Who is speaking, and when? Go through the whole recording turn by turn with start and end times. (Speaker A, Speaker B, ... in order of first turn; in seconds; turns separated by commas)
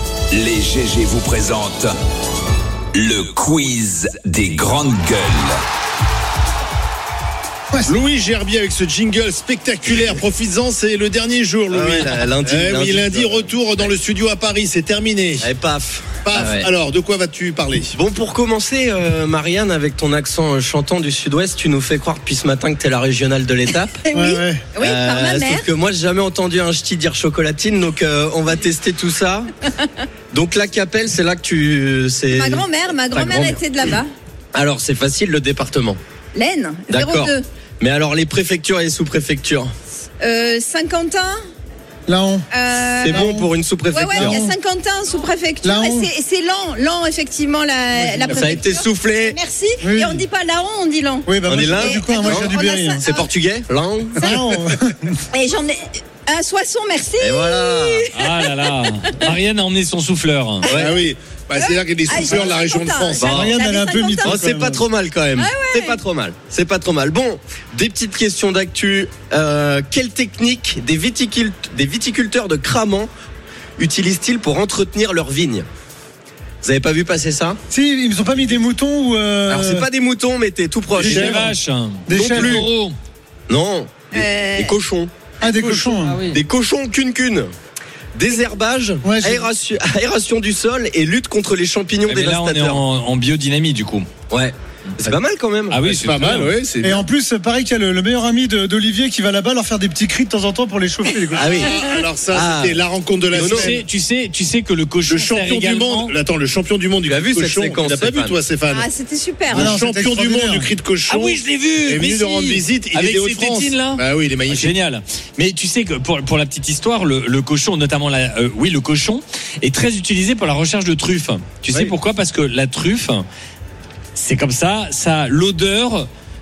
Speaker A: 0.3-1.9, Speaker A: 2.9-5.6, Speaker B: 7.8-15.5, Speaker C: 11.7-13.9, Speaker C: 15.4-16.7, Speaker B: 16.2-18.0, Speaker C: 17.9-24.0, Speaker D: 24.0-25.6, Speaker E: 24.1-24.6, Speaker C: 24.9-29.5, Speaker C: 30.3-32.6, Speaker D: 32.3-34.1, Speaker C: 33.2-33.6, Speaker C: 34.5-36.0, Speaker D: 36.3-37.4, Speaker C: 36.9-39.7, Speaker D: 40.2-41.4, Speaker E: 42.1-42.5, Speaker D: 42.5-43.3, Speaker C: 43.0-44.4, Speaker E: 43.1-43.5, Speaker D: 43.9-53.3, Speaker E: 44.1-44.5, Speaker E: 45.6-46.1, Speaker E: 47.9-48.6, Speaker C: 48.3-49.3, Speaker E: 49.8-50.2, Speaker E: 51.2-53.0, Speaker C: 51.5-54.3, Speaker E: 54.2-55.2, Speaker D: 55.3-59.2, Speaker C: 57.2-58.0, Speaker F: 58.1-60.7, Speaker C: 60.6-60.9, Speaker B: 60.8-63.3, Speaker D: 61.5-64.4, Speaker C: 63.2-63.5, Speaker E: 63.2-64.8, Speaker C: 64.2-73.1, Speaker D: 65.3-66.0, Speaker C: 73.8-75.7, Speaker C: 76.6-77.6, Speaker E: 77.7-79.8, Speaker C: 79.5-81.5, Speaker E: 81.0-81.5, Speaker F: 81.0-83.0, Speaker E: 82.1-82.7, Speaker C: 82.1-82.7, Speaker C: 83.5-85.1, Speaker D: 84.1-84.8, Speaker E: 85.4-86.2, Speaker F: 85.4-86.4, Speaker C: 86.3-87.5, Speaker C: 88.1-92.8, Speaker E: 89.0-89.5, Speaker F: 92.0-94.1, Speaker C: 94.3-95.8, Speaker F: 95.7-96.5, Speaker B: 95.8-97.0, Speaker E: 96.8-101.7, Speaker C: 101.4-103.7, Speaker B: 101.4-103.8, Speaker F: 103.4-106.1, Speaker B: 105.0-108.9, Speaker C: 107.1-108.4, Speaker D: 108.7-109.8, Speaker B: 109.5-114.7, Speaker E: 109.5-110.7, Speaker F: 111.1-123.2, Speaker F: 124.1-126.1